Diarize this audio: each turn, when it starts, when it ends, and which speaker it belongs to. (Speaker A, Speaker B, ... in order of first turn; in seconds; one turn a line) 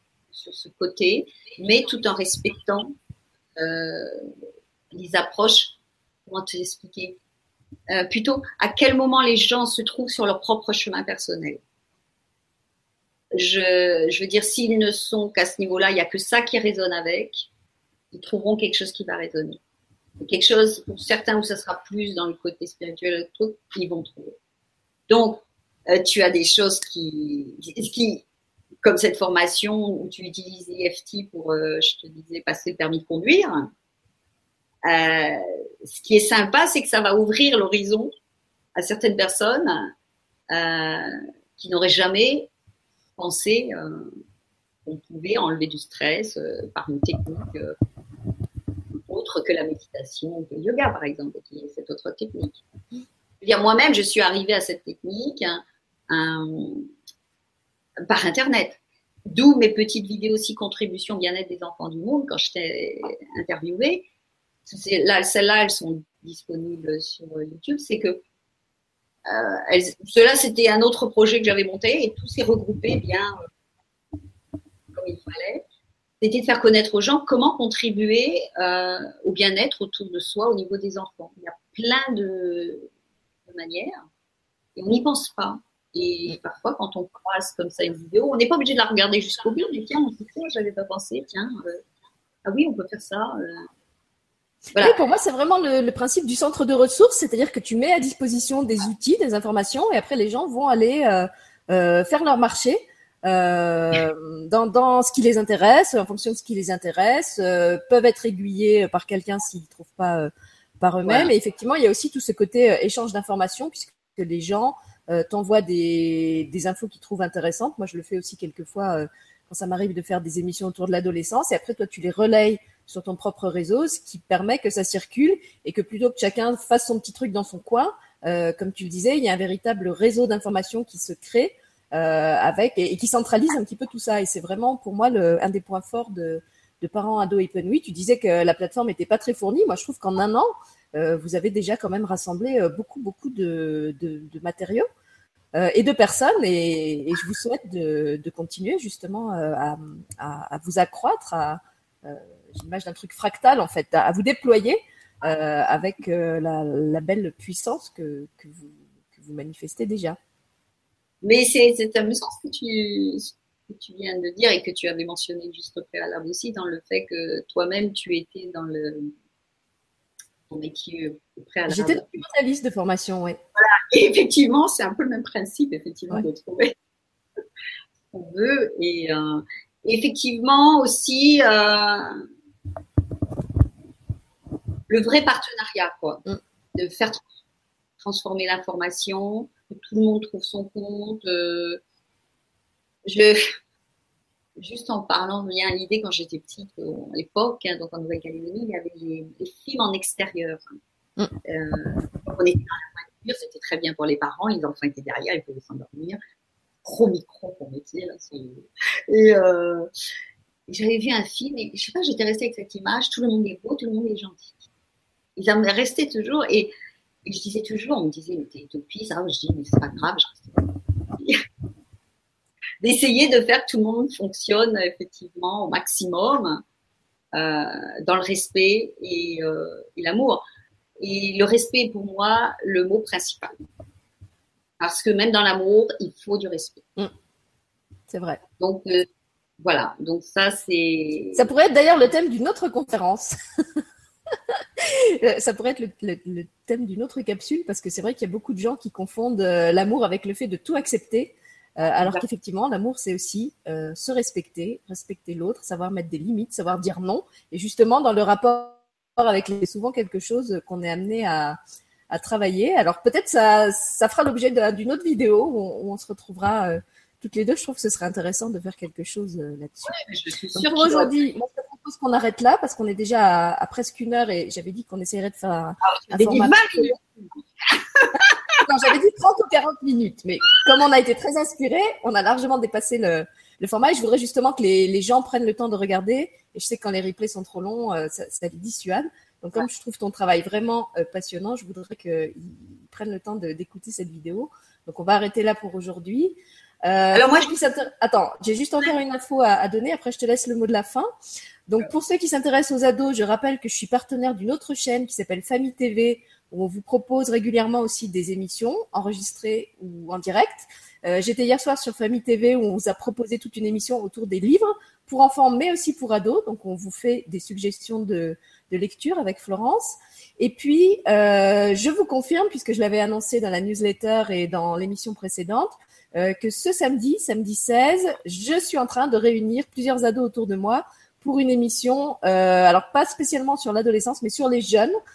Speaker A: 0.3-2.9
Speaker A: 3.5-4.2
Speaker A: 4.9-7.2
Speaker A: 7.9-11.6
Speaker A: 13.3-17.5
Speaker A: 18.1-19.6
Speaker A: 20.2-24.4
Speaker A: 25.1-28.2
Speaker A: 28.8-33.7
Speaker A: 34.8-38.1
Speaker A: 38.8-39.9
Speaker A: 40.5-42.5
Speaker A: 43.2-44.1
Speaker A: 44.8-47.7
Speaker A: 49.1-52.6
Speaker A: 53.4-56.9
Speaker A: 58.1-64.1
Speaker A: 64.7-68.2
Speaker A: 69.2-73.3
Speaker A: 74.9-75.6
Speaker A: 76.2-82.9
Speaker A: 83.5-83.9
Speaker A: 84.8-91.8
Speaker A: 92.4-93.7
Speaker B: 94.8-144.8
Speaker A: 111.0-111.3
Speaker B: 145.5-160.2
Speaker A: 161.2-169.1
Speaker A: 170.5-172.2
Speaker B: 171.7-173.4
Speaker A: 173.6-176.7
Speaker A: 178.1-182.2
Speaker A: 184.9-186.2
Speaker A: 186.7-187.2
Speaker A: 188.0-191.8
Speaker A: 193.0-193.4
Speaker A: 194.6-200.6
Speaker A: 201.4-206.2
Speaker A: 206.8-209.9
Speaker A: 210.7-214.7
Speaker A: 215.4-216.7
Speaker A: 217.2-221.4
Speaker A: 222.8-226.6
Speaker A: 227.3-230.4
Speaker A: 231.0-233.5
Speaker A: 234.8-236.8
Speaker B: 238.1-238.4
Speaker A: 238.6-239.1
Speaker A: 239.6-241.5
Speaker B: 241.3-243.3
Speaker B: 244.8-261.6
Speaker B: 262.1-269.9
Speaker A: 269.9-271.1
Speaker B: 270.6-277.0
Speaker A: 275.9-278.4
Speaker B: 278.6-301.1
Speaker A: 297.1-297.5
Speaker B: 301.7-334.9